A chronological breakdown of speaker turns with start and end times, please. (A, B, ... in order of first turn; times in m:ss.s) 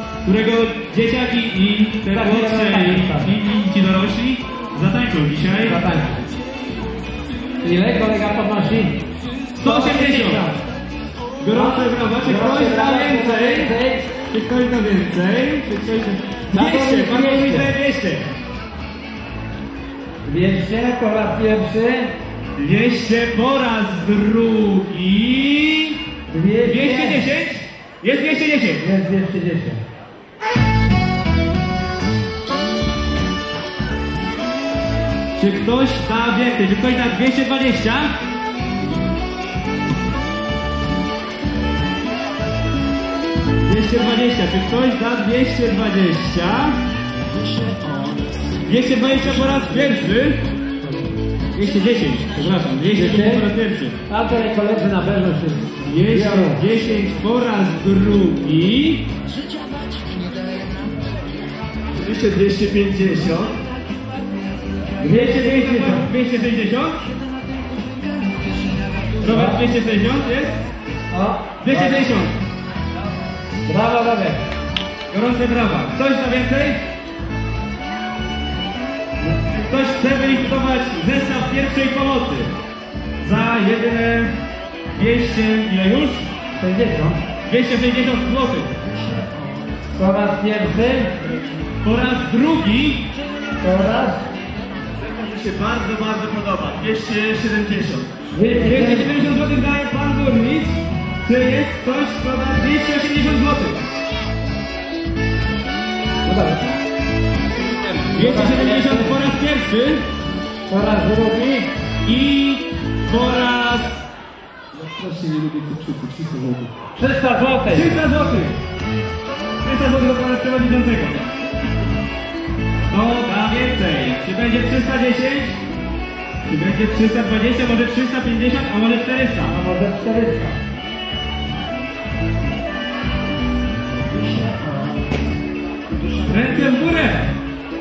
0:00.2-0:05.8 A
0:02.1-0:03.4 B
0:05.6-0:06.2 B
0:07.6-0:09.0 B
0:09.6-0:10.5 A
0:09.6-0:10.6 B
0:11.4-0:13.7 A
0:11.5-0:14.1 B
0:14.3-0:18.3 A
0:16.5-0:17.7 B
0:20.2-0:22.1 B
0:22.6-0:26.0 A
0:26.3-0:27.2 B
0:26.6-0:28.8 A
0:28.8-0:29.8 B
0:35.4-0:38.1 A
0:43.6-0:46.8 A
0:48.6-0:50.4 A
0:51.5-0:53.9 A
0:52.9-0:53.5 B
0:54.1-0:56.6 B
0:55.8-0:59.1 A
1:01.9-1:03.5 C
1:05.0-1:06.1 B
1:05.0-1:07.0 A
1:09.2-1:10.6 A
1:09.2-1:09.6 B
1:11.1-1:12.1 B
1:11.6-1:12.3 A
1:13.6-1:14.4 B
1:15.1-1:16.8 A
1:19.6-1:22.5 A
1:23.2-1:24.3 A
1:24.9-1:26.3 A
1:26.6-1:27.2 B
1:27.4-1:28.7 A
1:30.0-1:31.1 B
1:31.8-1:33.0 A
1:33.6-1:34.3 B
1:35.0-1:38.1 C
1:38.3-1:39.1 B
1:38.5-1:43.8 A
1:46.2-1:46.7 B
1:47.7-1:49.2 B
1:48.1-1:50.0 A
1:50.7-1:51.7 B
1:52.0-1:54.0 A
1:54.7-1:56.7 D
1:56.9-1:57.9 B
1:57.7-1:58.6 A
1:59.6-2:01.2 A
2:02.9-2:05.6 A
2:06.4-2:09.5 A
2:09.4-2:10.6 B
2:16.2-2:17.3 A